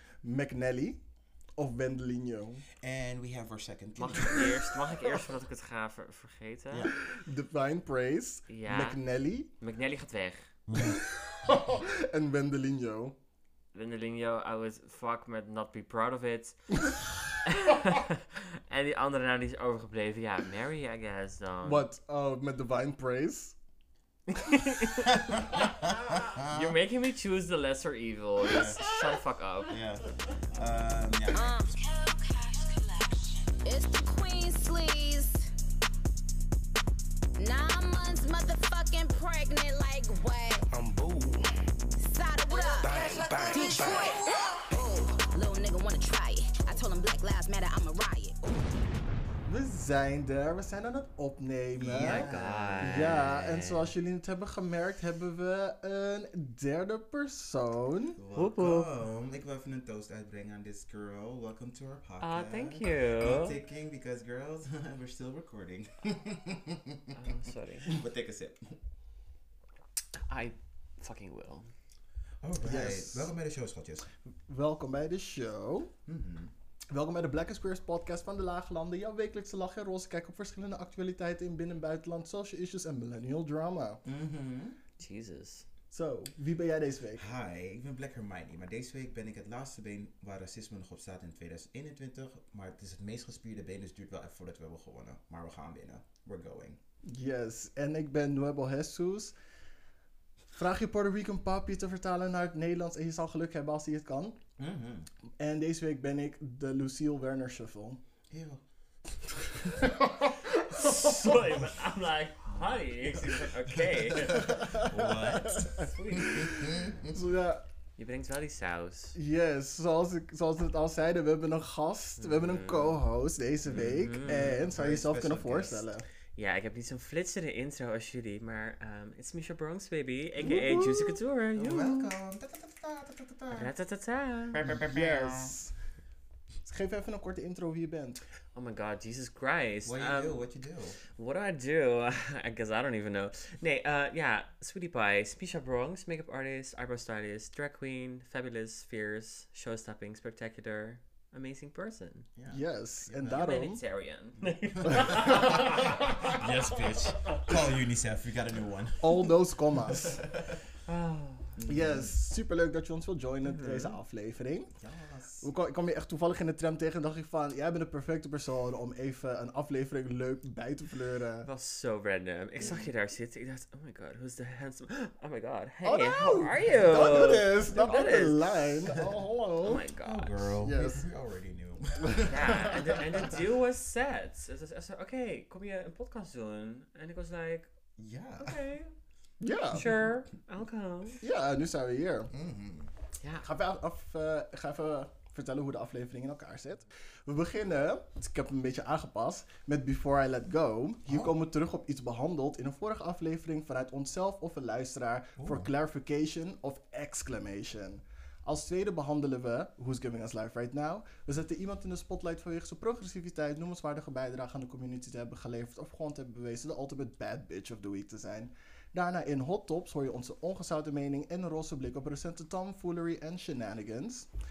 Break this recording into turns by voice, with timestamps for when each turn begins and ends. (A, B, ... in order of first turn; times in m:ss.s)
0:00.2-0:01.0 A
0:01.6-0:02.6 A
0:02.8-0:04.8 B
0:04.0-0:06.9 C
0:06.9-0:09.5 A
0:08.5-0:09.0 C
0:09.6-0:10.6 C
0:10.7-0:11.0 B
0:10.7-0:13.1 A
0:13.7-0:16.9 C
0:17.4-0:21.8 C
0:21.6-0:23.6 A
0:24.8-0:25.1 C
0:25.2-0:26.8 B
0:26.4-0:29.8 C
0:28.4-0:28.8 B
0:29.7-0:31.6 B
0:31.3-0:35.5 D
0:37.4-0:40.7 D
0:40.7-0:41.4 E
0:42.0-0:48.5 D
0:42.8-0:44.1 E
0:49.4-0:52.3 A
0:51.7-0:53.3 B
0:51.9-0:53.9 C
0:52.8-0:58.2 A
0:58.2-1:08.8 B
0:58.3-0:58.9 C
1:02.2-1:03.6 C
1:07.1-1:08.0 C
1:10.1-1:11.7 C
1:12.4-1:14.1 B
1:12.6-1:13.3 A
1:14.3-1:15.9 A
1:16.1-1:16.5 B
1:16.9-1:24.0 A
1:24.0-1:24.8 B
1:25.0-1:25.7 C
1:25.9-1:27.3 A
1:27.2-1:36.8 B
1:37.0-1:39.3 A
1:40.5-1:44.4 A
1:44.6-1:45.1 B
1:45.4-1:48.0 A
1:48.3-1:48.6 B
1:49.5-1:51.1 A
1:50.7-1:54.8 C
1:53.0-1:57.1 B
1:54.4-1:57.6 A
1:55.8-1:56.5 C
1:58.0-1:59.2 C
1:59.1-2:06.0 A
2:02.2-2:03.0 C
2:03.7-2:05.9 B
2:03.8-2:04.5 C
2:06.4-2:12.1 C
2:10.4-2:11.2 A
2:11.6-2:13.7 B
2:13.5-2:14.6 C
2:14.5-2:15.5 B
2:14.7-2:15.8 A
2:16.6-2:18.2 A
2:18.5-2:20.5 C
2:19.8-2:21.0 B
2:21.1-2:32.3 C
2:32.4-2:33.2 B
2:32.5-2:33.8 A
2:33.1-2:36.5 C
2:34.8-2:36.1 A
2:34.8-2:39.3 B
2:39.0-2:40.2 A
2:39.9-2:40.6 B
2:40.8-2:41.6 C
2:41.6-2:42.1 B
2:41.7-2:44.7 A
2:43.5-2:44.0 C
2:44.8-2:45.5 B
2:45.4-2:51.5 A
2:51.4-2:58.9 C
2:52.6-2:52.8 B
2:55.8-2:59.8 A
2:56.7-2:58.1 B
2:59.6-3:00.5 C
2:59.9-3:02.8 B
3:00.6-3:01.0 A
3:02.1-3:03.0 A
3:02.3-3:07.7 C
3:08.0-3:08.6 B
3:08.4-3:08.9 C
3:09.4-3:09.8 A
3:09.7-3:11.2 C
3:09.7-3:10.1 B
3:11.2-3:12.3 A
3:12.3-3:12.9 B
3:13.2-3:13.4 C
3:13.4-3:44.3 A
3:25.4-3:25.7 B